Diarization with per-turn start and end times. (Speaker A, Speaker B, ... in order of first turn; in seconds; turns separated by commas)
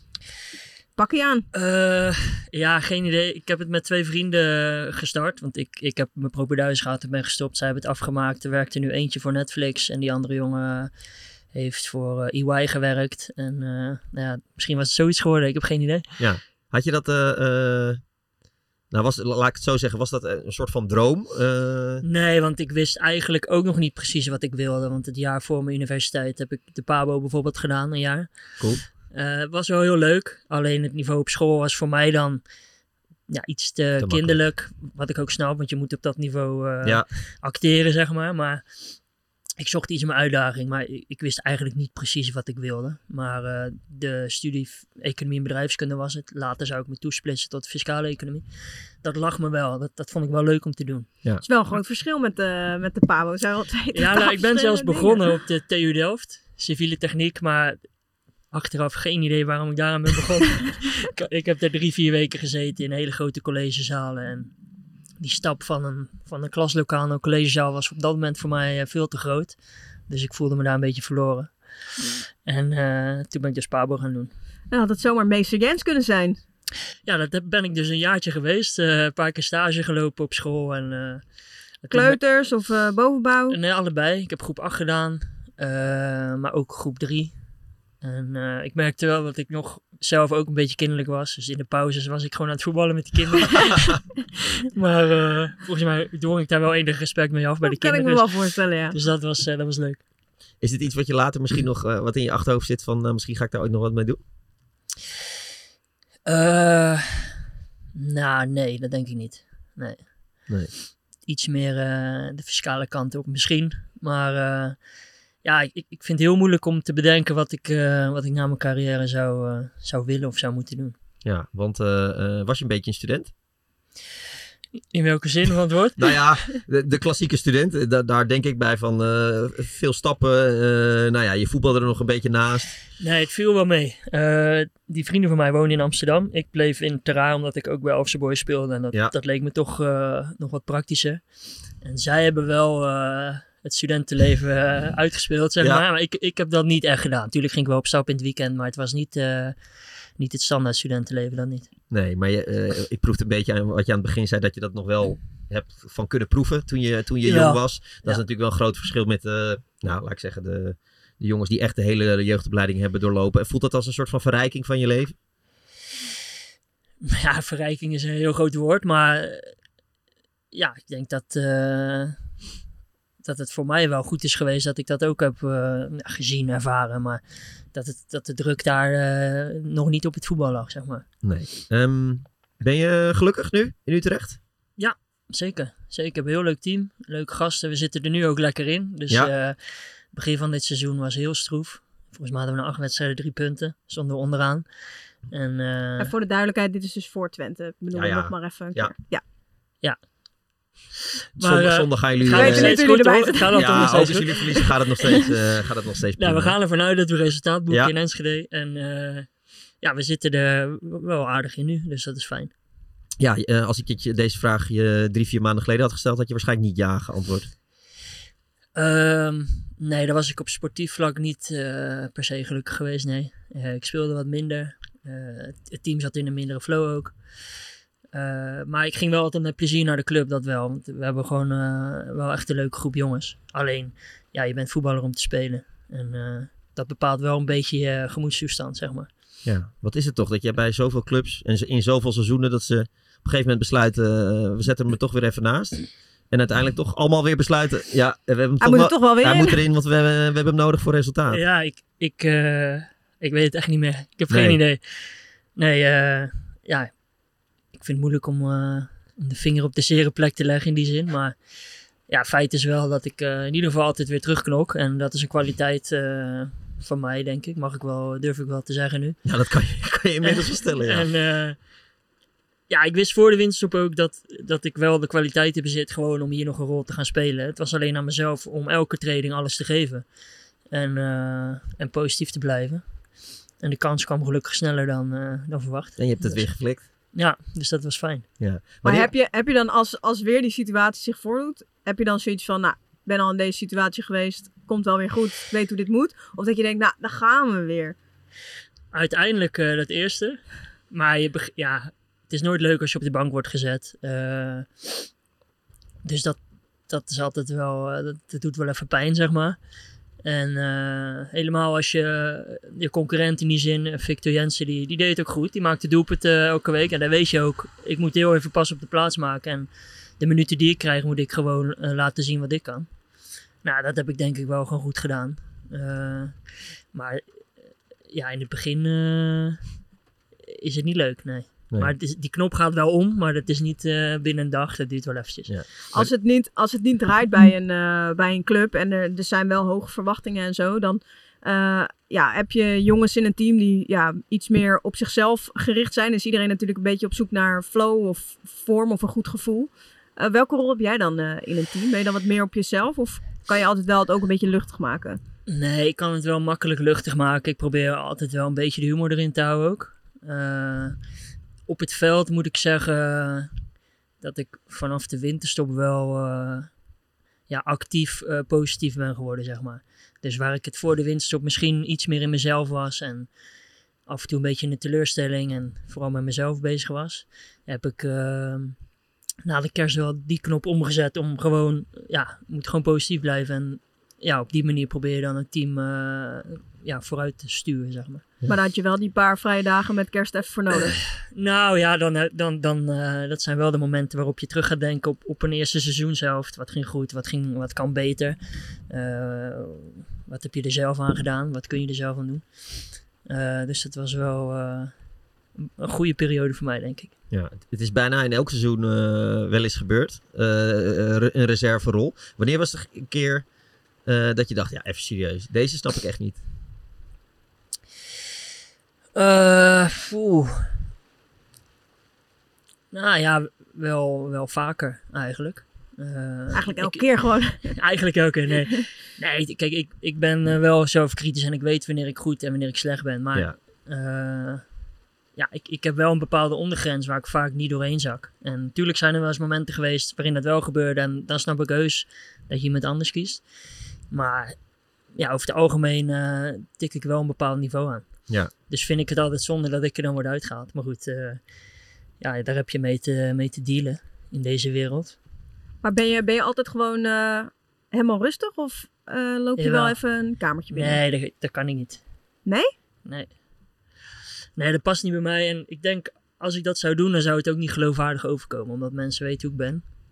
Speaker A: 1.0-1.4, Speaker B: 1.5-10.9, Speaker B: 11.5-16.0, Speaker C: 16.2-18.0, Speaker C: 18.9-22.0, Speaker B: 22.0-28.3, Speaker B: 29.1-32.4, Speaker B: 33.3-38.6, Speaker C: 34.0-34.4, Speaker B: 39.6-48.4, Speaker B: 49.0-51.1, Speaker A: 51.4-55.3, Speaker B: 53.9-57.8, Speaker B: 58.5-64.5, Speaker B: 65.2-69.5, Speaker B: 70.1-71.5, Speaker B: 72.4-74.3, Speaker A: 74.7-76.4, Speaker B: 77.0-81.2, Speaker B: 81.8-82.2, Speaker A: 81.9-83.6, Speaker B: 83.5-87.3, Speaker B: 88.0-94.0, Speaker B: 94.7-98.3, Speaker A: 97.6-99.0, Speaker B: 98.9-100.0, Speaker C: 100.6-104.2, Speaker B: 106.2-107.3, Speaker B: 107.9-110.1, Speaker B: 111.2-114.8, Speaker B: 115.4-120.9, Speaker C: 121.2-123.3, Speaker B: 124.9-126.2, Speaker C: 126.0-132.7, Speaker B: 133.0-141.2, Speaker B: 141.8-149.5, Speaker B: 150.2-151.7, Speaker C: 151.9-165.1, Speaker B: 157.2-158.2, Speaker B: 167.0-169.5, Speaker B: 170.5-172.2, Speaker B: 173.2-177.2, Speaker B: 177.7-181.1, Speaker C: 181.2-184.4, Speaker B: 184.8-189.6, Speaker B: 190.1-194.7, Speaker B: 195.3-196.1, Speaker A: 196.0-199.2, Speaker C: 197.9-198.9, Speaker B: 201.4-204.6, Speaker C: 201.4-202.8, Speaker A: 202.3-204.7, Speaker C: 203.5-206.6, Speaker B: 206.2-209.3, Speaker B: 209.8-212.5, Speaker C: 213.2-217.5, Speaker B: 218.7-227.1, Speaker B: 228.1-239.1, Speaker C: 239.4-251.4, Speaker A: 248.6-249.6, Speaker B: 251.3-255.0, Speaker C: 254.3-254.6, Speaker B: 255.5-256.9, Speaker B: 257.7-261.3, Speaker B: 262.1-269.2, Speaker C: 269.2-271.1, Speaker B: 270.2-271.6, Speaker B: 272.7-280.1, Speaker B: 280.7-283.0, Speaker B: 283.6-286.5, Speaker C: 286.0-286.8, Speaker B: 287.1-288.3, Speaker C: 288.4-289.1, Speaker A: 288.8-297.9, Speaker B: 298.9-305.1, Speaker B: 306.0-309.6, Speaker B: 310.2-319.7, Speaker B: 320.2-322.9, Speaker B: 323.6-326.4, Speaker B: 326.9-327.2, Speaker B: 328.1-329.6, Speaker B: 330.5-335.5, Speaker C: 335.5-336.1, Speaker A: 335.9-355.2, Speaker B: 355.5-360.9, Speaker B: 361.7-363.5, Speaker B: 364.2-366.7, Speaker B: 367.5-373.3, Speaker B: 374.1-378.9, Speaker B: 379.4-388.2, Speaker A: 388.5-391.0, Speaker B: 391.3-398.4, Speaker B: 398.9-405.0, Speaker B: 405.6-407.1, Speaker C: 407.3-413.5, Speaker C: 414.0-416.4, Speaker B: 419.1-420.7, Speaker B: 422.9-434.7, Speaker A: 426.5-427.7, Speaker B: 435.4-443.4, Speaker B: 444.1-451.4, Speaker B: 452.2-455.2, Speaker A: 455.8-461.0, Speaker B: 459.6-460.0, Speaker B: 460.7-462.0, Speaker A: 462.4-462.7, Speaker B: 463.0-463.3, Speaker B: 464.6-469.9